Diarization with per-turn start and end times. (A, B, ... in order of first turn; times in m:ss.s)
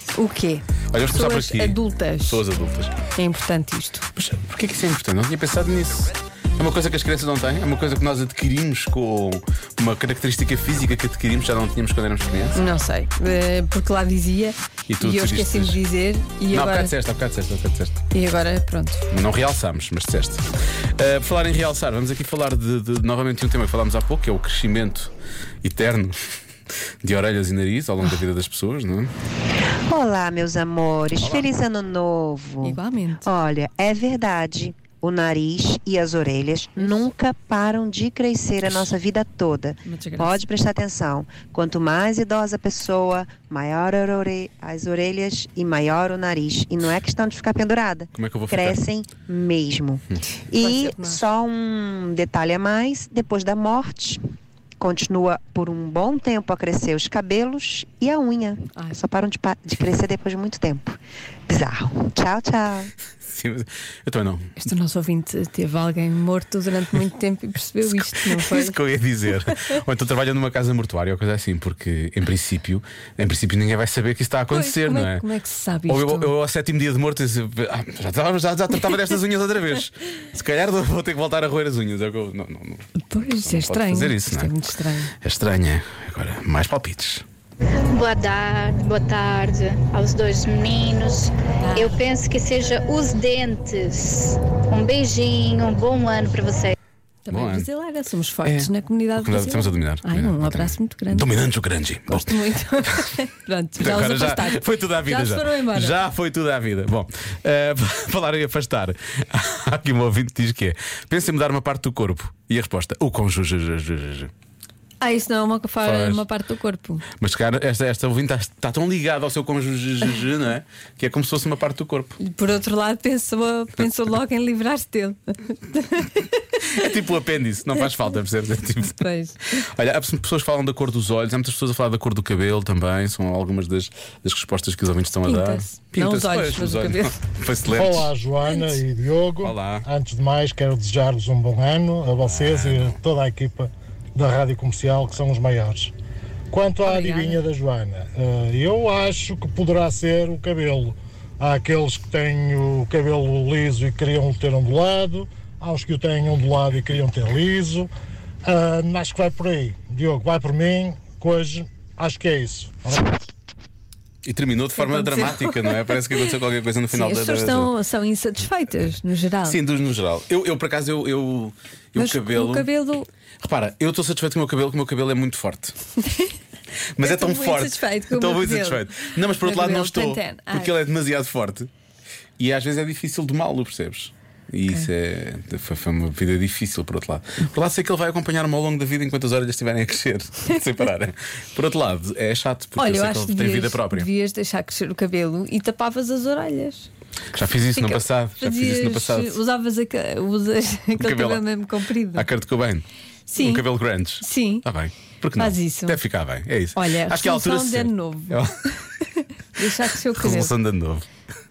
0:00.2-0:02.4 A
0:00.9-0:02.9 B
0:03.2-0:04.1 A
0:04.2-0:12.6 B
0:12.6-0:16.9 A
0:14.9-0:15.8 B
0:16.5-0:18.0 B
0:18.1-0:19.0 A
0:19.1-0:20.4 B
0:21.0-0:25.1 B
0:25.6-0:26.2 B
0:27.0-0:29.1 B
0:29.7-0:54.2 C
0:31.2-0:31.5 B
0:32.6-0:33.3 A
0:36.8-0:37.1 A
0:39.8-0:40.4 A
0:48.1-0:48.8 B
0:50.6-0:51.2 A
0:54.8-1:01.0 C
1:01.5-1:02.9 C
1:03.2-1:04.5 B
1:04.6-1:08.8 A
1:08.2-1:15.2 B
1:14.5-1:16.3 A
1:15.9-1:24.7 B
1:23.0-1:25.1 A
1:25.2-1:27.2 B
1:27.9-1:36.8 D
1:31.6-1:32.0 A
1:37.2-1:41.3 A
1:37.3-1:37.7 B
1:38.4-1:42.4 B
1:42.0-1:46.0 A
1:43.8-1:54.3 B
1:55.0-1:57.0 A
1:55.8-1:56.2 B
1:57.2-2:02.2 B
2:02.2-2:06.9 A
2:06.7-2:09.0 B
2:08.9-2:09.6 A
2:09.7-2:18.1 B
2:15.2-2:17.2 A
2:17.7-2:25.9 E
2:19.4-2:19.9 B
2:22.2-2:23.0 B
2:26.5-2:37.9 E
2:26.8-2:27.4 A
2:38.4-2:43.2 E
2:44.2-2:47.7 B
2:44.8-2:46.2 A
2:46.9-2:49.6 A
2:49.4-2:52.7 B
2:52.0-2:53.1 A
2:53.4-2:55.8 B
2:57.0-3:01.7 B
2:57.0-3:00.7 A
3:02.4-3:14.1 B
3:12.8-3:16.9 A
3:17.3-3:19.4 B
3:17.8-3:22.3 A
3:21.0-3:21.4 B
3:22.2-3:28.5 B
3:23.3-3:23.7 A
3:24.2-3:24.7 A
3:25.4-3:26.0 A
3:26.8-3:30.5 A
3:30.2-3:31.1 B